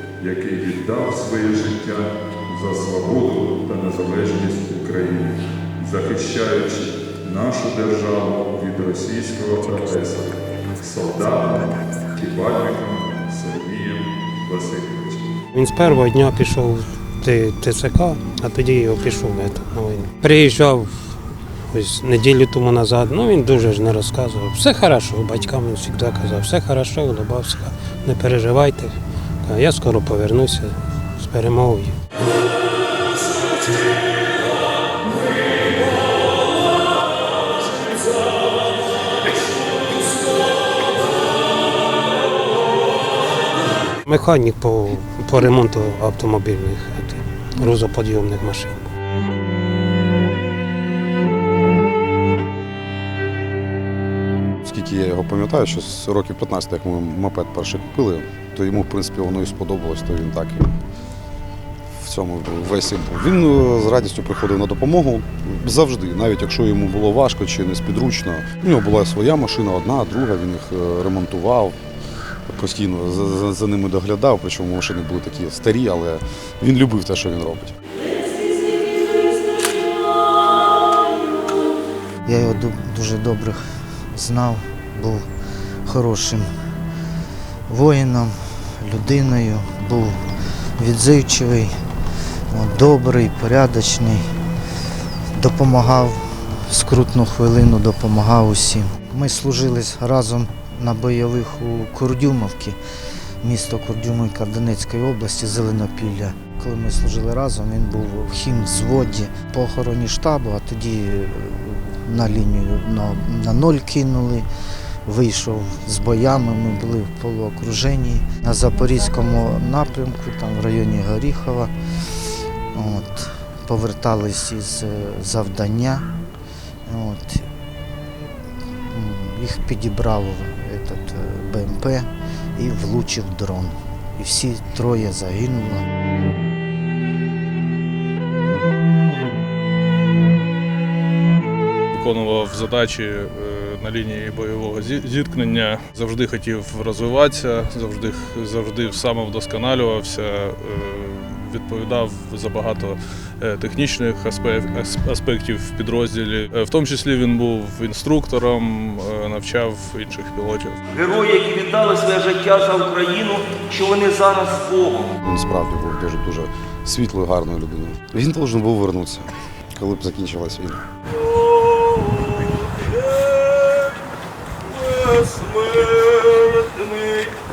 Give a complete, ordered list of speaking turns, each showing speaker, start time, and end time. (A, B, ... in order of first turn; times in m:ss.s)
0:00.2-0:15.3 A
0:15.5-0:21.1 B
0:21.7-0:32.0 B
0:33.2-0:33.6 B
0:44.0-0:48.9 B
0:54.6-1:00.7 C
1:01.9-1:11.8 C
1:12.5-1:17.7 C
1:22.2-1:25.2 D
1:25.8-1:26.5 D
1:27.7-1:30.2 D
1:30.8-1:31.7 D
1:32.5-1:34.2 D
1:35.4-1:42.8 D
1:43.4-1:54.4 D
1:55.0-2:01.7 D
2:02.7-2:06.0 D
2:06.8-2:07.4 D
2:08.9-2:15.8 D
2:21.9-2:40.8 E
2:40.9-2:45.1 F
2:45.2-2:50.8 C
2:51.1-2:53.9 F
2:54.6-2:57.3 F